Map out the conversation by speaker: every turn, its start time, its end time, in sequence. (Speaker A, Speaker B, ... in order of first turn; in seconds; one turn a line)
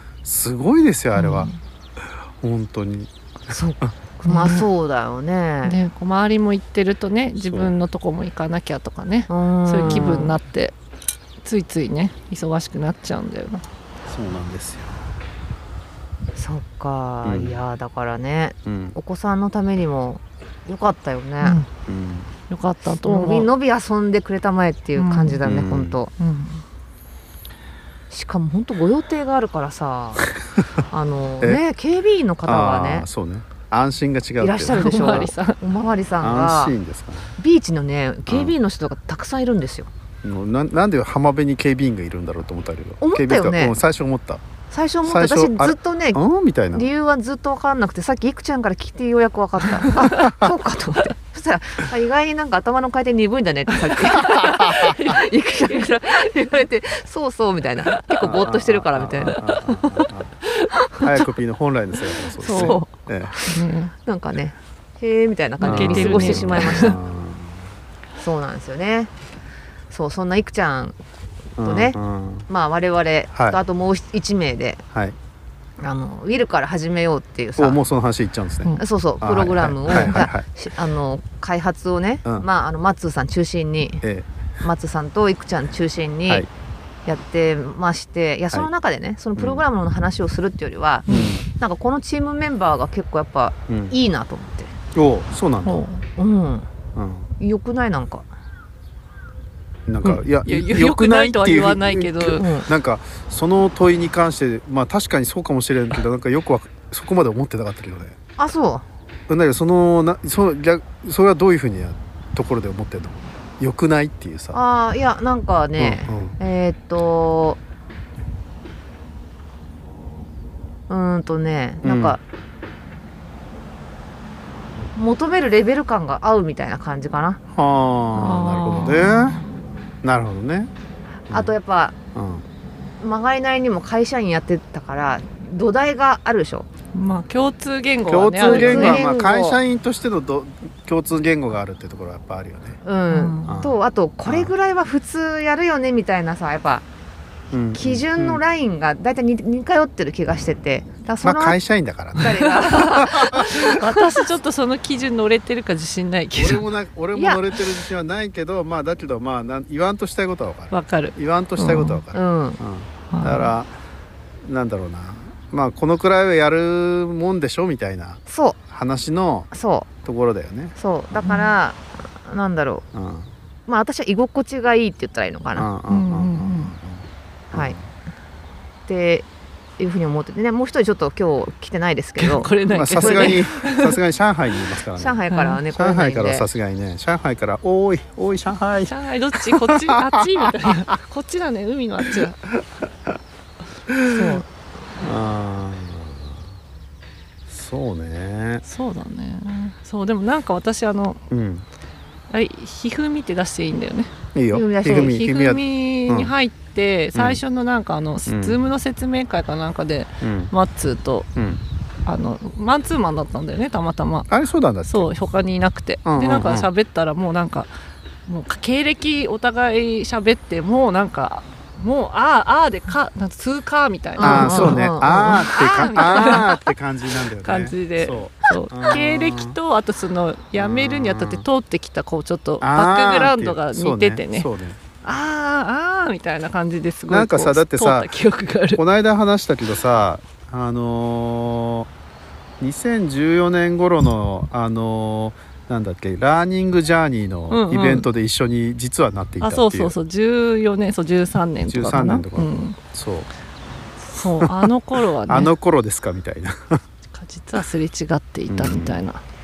Speaker A: 0.2-1.5
Speaker B: 1.1-1.5
Speaker A: 2.4-3.1
Speaker C: 3.5-5.8
Speaker B: 4.2-4.7
Speaker B: 5.6-10.7
Speaker A: 7.4-7.7
Speaker C: 9.3-10.4
Speaker B: 11.4-13.6
Speaker A: 14.1-14.9
Speaker C: 16.3-21.6
Speaker A: 17.2-17.6
Speaker A: 18.6-18.9
Speaker B: 21.4-21.7
Speaker A: 21.9-22.3
Speaker B: 22.5-23.5
Speaker C: 23.0-26.1
Speaker B: 25.0-25.4
Speaker A: 25.4-26.0
Speaker B: 26.2-26.6
Speaker C: 28.1-30.2
Speaker C: 30.9-33.1
Speaker A: 32.4-34.8
Speaker C: 34.4-36.8
Speaker B: 34.7-35.6
Speaker A: 36.2-37.4
Speaker C: 37.4-39.9
Speaker A: 38.3-38.5
Speaker A: 40.2-44.4
Speaker C: 43.0-43.8
Speaker C: 44.7-46.2
Speaker A: 45.0-46.9
Speaker C: 46.7-59.4
Speaker A: 50.0-50.5
Speaker B: 54.2-55.2
Speaker A: 54.4-54.8
Speaker A: 58.2-60.3
Speaker B: 59.3-60.1
Speaker A: 61.0-63.3
Speaker B: 62.4-62.9
Speaker C: 62.5-67.0
Speaker B: 63.5-63.9
Speaker B: 65.6-66.9
Speaker A: 65.6-67.7
Speaker C: 68.2-69.1
Speaker C: 69.9-71.0
Speaker A: 71.6-72.5
Speaker C: 71.6-74.8
Speaker A: 73.3-73.6
Speaker C: 75.8-77.8
Speaker A: 77.6-80.5
Speaker C: 78.8-84.0
Speaker A: 84.0-84.3
Speaker C: 84.6-86.5
Speaker C: 87.0-94.7
Speaker A: 89.4-89.7
Speaker B: 91.1-91.4
Speaker A: 91.1-91.5
Speaker A: 93.7-93.9
Speaker A: 94.9-95.8
Speaker B: 95.6-96.0
Speaker C: 96.2-96.7
Speaker A: 96.9-97.3
Speaker C: 97.4-98.3
Speaker A: 99.9-108.2
Speaker B: 100.0-102.6
Speaker C: 102.3-102.7
Speaker C: 108.4-108.8
Speaker A: 109.3-114.6
Speaker C: 114.5-117.6
Speaker A: 115.8-116.3
Speaker C: 120.9-122.2
Speaker A: 121.8-122.2
Speaker C: 124.9-127.4
Speaker A: 127.5-129.4
Speaker B: 128.1-129.4
Speaker A: 130.0-130.7
Speaker C: 131.3-131.9
Speaker A: 132.1-132.4
Speaker C: 133.0-136.7
Speaker B: 136.9-139.0
Speaker A: 138.1-142.8
Speaker C: 138.4-139.6
Speaker C: 142.8-146.8
Speaker B: 143.1-143.6
Speaker A: 143.4-144.5
Speaker A: 147.5-148.4
Speaker C: 147.7-151.6
Speaker A: 151.2-154.2
Speaker C: 152.2-153.5
Speaker B: 152.3-156.6
Speaker A: 156.3-163.7
Speaker C: 157.1-157.4
Speaker B: 160.7-162.0
Speaker C: 162.1-162.6
Speaker B: 163.1-163.5
Speaker A: 164.4-169.5
Speaker C: 168.3-168.6
Speaker C: 169.5-169.9
Speaker A: 170.0-171.3
Speaker C: 170.8-172.8
Speaker B: 171.2-171.5
Speaker A: 172.9-173.3
Speaker C: 173.7-175.7
Speaker A: 175.5-177.9
Speaker B: 175.9-176.8
Speaker C: 177.5-177.8
Speaker C: 178.9-179.2
Speaker C: 179.8-183.4
Speaker B: 182.2-184.0
Speaker A: 182.7-185.2
Speaker C: 185.0-186.5
Speaker B: 185.3-185.6
Speaker A: 185.7-190.8
Speaker B: 188.8-192.4
Speaker A: 193.9-194.4
Speaker C: 194.1-194.4
Speaker A: 195.0-196.4
Speaker A: 197.5-198.6
Speaker B: 198.6-201.2
Speaker A: 201.3-201.7
Speaker B: 202.3-204.1
Speaker A: 204.3-206.3
Speaker C: 204.5-205.1
Speaker B: 204.8-211.3
Speaker A: 207.1-207.4
Speaker A: 208.2-208.6
Speaker A: 210.2-210.5
Speaker A: 211.3-211.6
Speaker B: 212.1-214.3
Speaker A: 214.3-215.1
Speaker B: 214.8-217.7
Speaker A: 216.0-216.7
Speaker B: 218.3-226.7
Speaker C: 224.2-226.4
Speaker A: 224.2-229.6
Speaker B: 227.2-234.5
Speaker A: 230.6-231.4
Speaker A: 232.6-234.8
Speaker B: 235.0-238.8
Speaker A: 237.1-238.1
Speaker A: 238.7-241.9
Speaker A: 242.6-249.9
Speaker B: 247.5-248.1
Speaker B: 249.4-252.8
Speaker A: 251.7-253.3
Speaker B: 254.0-255.5
Speaker A: 255.3-256.8
Speaker B: 257.1-259.2
Speaker A: 258.5-259.0